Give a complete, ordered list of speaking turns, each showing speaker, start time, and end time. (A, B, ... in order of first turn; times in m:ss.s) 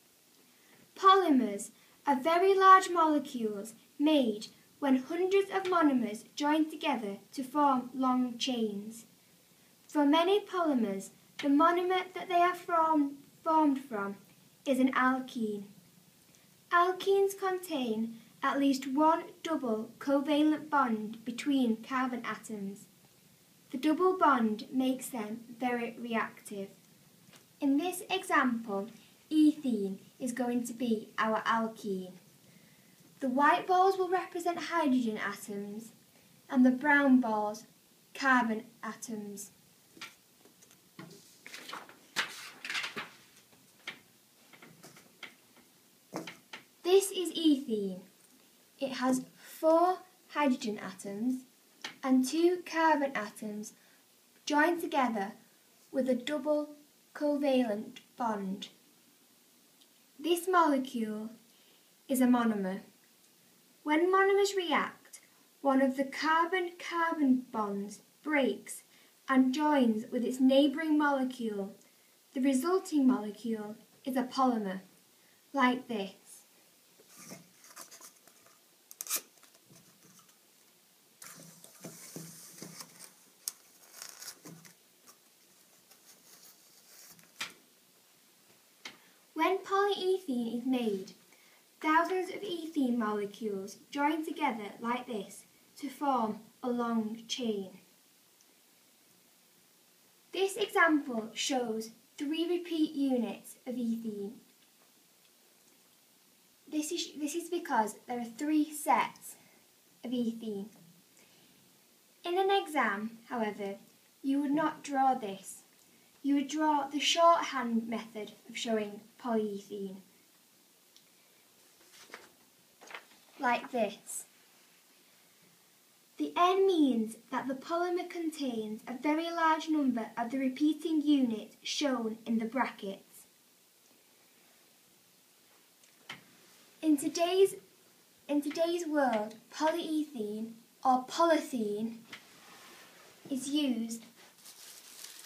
0:01.0-0:09.1 A
0:09.9-0:15.7 A
0:16.7-0:22.9 A
0:23.7-0:26.8 A
0:27.6-0:32.2 A
0:33.2-0:35.9 A
0:36.5-0:39.5 A
0:46.8-0:48.0 A
0:48.8-0:51.4 A
0:52.0-0:53.7 A
0:54.4-0:55.4 A
0:55.9-0:58.7 A
1:00.2-1:01.3 A
1:02.1-1:02.8 A
1:03.8-1:11.8 A
1:12.3-1:14.8 A
1:15.5-1:16.5 A
1:29.4-1:31.2 A
1:31.8-1:37.8 A
1:40.3-1:44.4 A
1:46.7-1:49.4 A
1:50.0-1:50.7 A
1:52.2-1:55.6 A
1:56.2-2:00.0 A
2:03.4-2:04.3 A
2:06.2-2:13.3 A
2:16.8-2:17.6 A
2:18.3-2:22.0 A
2:23.3-2:24.0 A